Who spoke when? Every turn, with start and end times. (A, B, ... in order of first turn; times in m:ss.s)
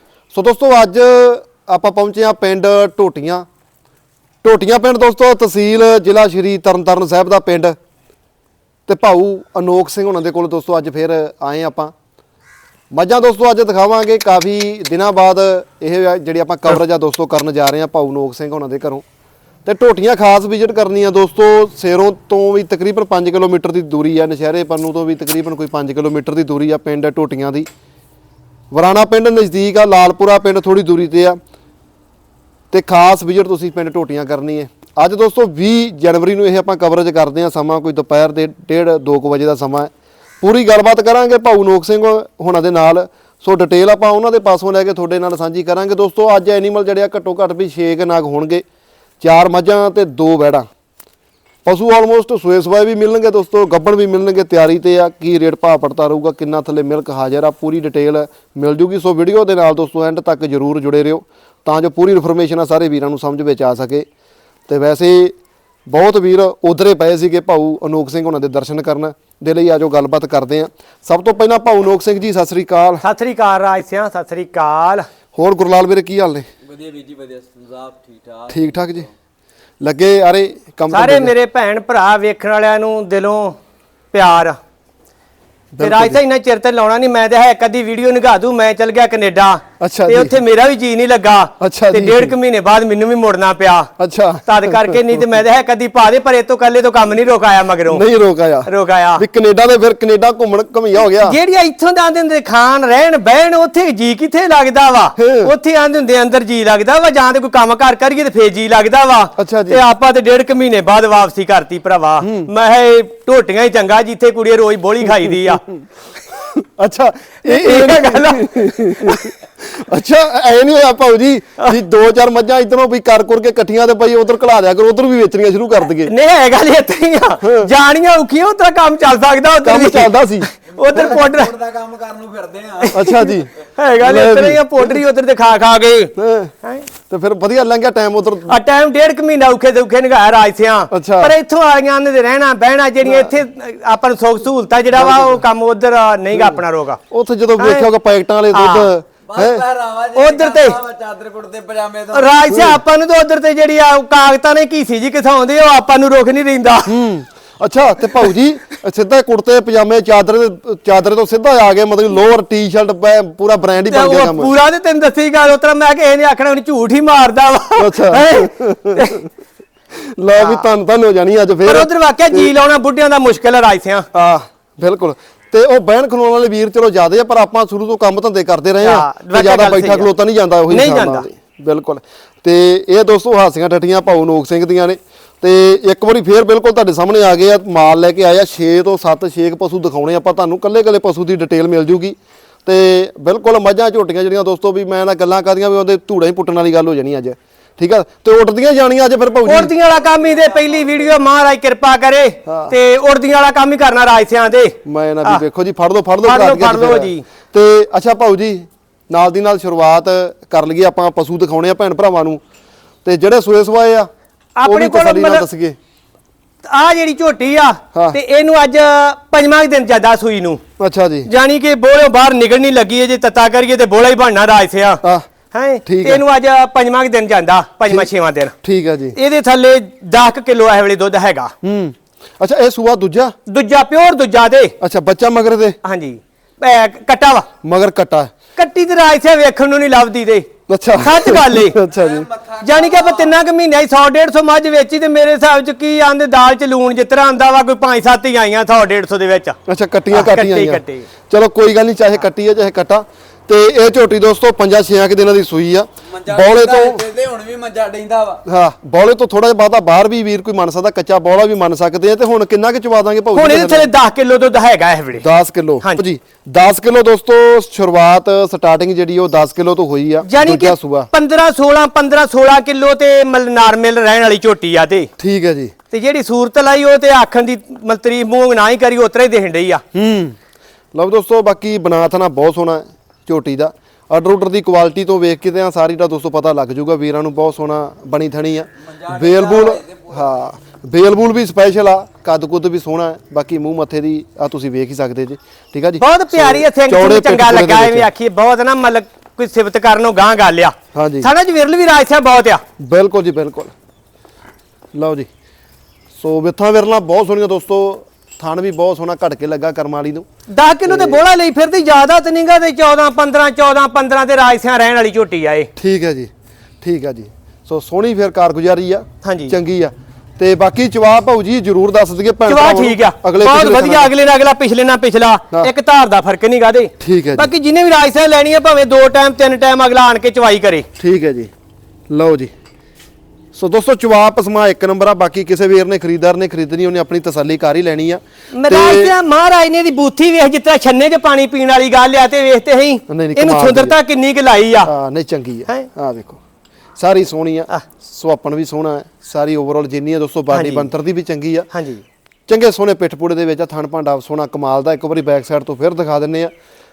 0:00.3-0:03.5 A
0:04.4-0:07.8 A
0:08.9-0:11.9 A
0:12.9-0:19.0 A
0:19.6-0:27.7 A
0:28.7-0:31.4 A
0:32.7-0:48.6 A
0:49.2-0:50.7 A
0:51.6-1:04.1 A
1:04.7-1:05.4 A
1:05.9-1:13.0 A
1:13.0-1:15.1 B
1:15.3-1:16.5 A
1:16.6-1:19.1 C
1:18.5-1:19.1 A
1:19.8-1:21.3 A
1:20.9-1:23.6 B
1:24.1-1:24.6 B
1:25.7-1:26.2 A
1:25.8-1:33.9 B
1:29.8-1:30.4 A
1:31.6-1:32.4 A
1:34.0-1:35.2 A
1:34.5-1:38.0 B
1:37.9-1:41.4 A
1:38.7-1:39.2 B
1:41.2-1:55.6 B
1:45.2-1:45.5 A
1:49.4-1:49.8 A
1:52.2-1:52.5 A
1:56.4-2:06.1 A
1:57.4-1:59.3 B
2:06.1-2:11.5 B
2:07.4-2:07.7 A
2:09.6-2:10.5 A
2:10.8-2:13.0 C
2:12.8-2:16.9 B
2:12.9-2:15.0 A
2:16.2-2:16.5 A
2:17.1-2:18.6 A
2:18.5-2:27.0 B
2:20.9-2:21.4 A
2:23.0-2:23.4 A
2:24.9-2:25.4 A
2:26.3-2:29.6 A
2:27.6-2:27.9 B
2:28.5-2:28.9 B
2:29.3-2:32.4 C
2:30.2-2:30.8 B
2:32.1-2:36.9 B
2:32.5-2:32.8 A
2:36.9-2:44.5 A
2:43.9-2:49.2 B
2:47.8-2:49.3 A
2:49.9-2:52.5 A
2:50.4-2:50.6 B
2:51.6-2:54.1 B
2:54.1-3:19.7 A
2:58.8-3:00.1 B
3:00.7-3:01.2 B
3:19.4-3:25.4 B
3:22.4-3:22.8 A
3:24.8-3:32.4 A
3:26.3-3:27.2 B
3:33.0-3:34.1 A
3:34.6-3:35.5 B
3:34.6-3:35.8 A
3:36.6-3:40.6 B
3:40.8-3:41.3 A
3:41.3-3:48.5 B
3:45.9-3:46.2 A
3:48.6-3:49.2 A
3:49.2-3:51.5 B
3:51.6-3:53.4 A
3:53.5-3:54.8 B
3:54.8-3:55.8 A
3:55.8-3:57.5 B
3:57.6-3:58.3 A
3:58.6-4:01.8 B
4:00.7-4:02.3 A
4:01.9-4:03.3 C
4:02.6-4:09.6 B
4:09.7-4:17.0 A
4:10.1-4:11.1 B
4:16.1-4:18.4 C
4:18.5-4:23.9 A
4:23.4-4:25.2 B
4:25.2-4:31.1 A
4:30.3-4:35.1 B
4:35.2-4:35.7 A
4:35.9-4:39.8 B
4:39.9-4:40.4 A
4:40.9-4:58.1 A
4:48.8-4:50.3 C
4:56.0-5:02.6 B
5:00.9-5:01.3 A
5:02.8-5:03.7 A
5:04.9-5:05.3 A
5:06.2-5:10.3 A
5:10.5-5:15.7 B
5:10.8-5:11.2 A
5:15.8-5:16.3 A
5:16.8-5:24.1 A
5:19.2-5:19.6 B
5:22.5-5:30.9 B
5:27.0-5:27.5 A
5:31.0-5:31.5 A
5:32.1-5:32.5 A
5:33.5-5:39.2 A
5:38.5-5:44.9 B
5:43.1-5:44.0 A
5:44.8-5:46.4 A
5:47.0-5:51.7 A
5:50.5-5:50.9 B
5:51.7-5:52.0 B
5:52.5-5:56.5 A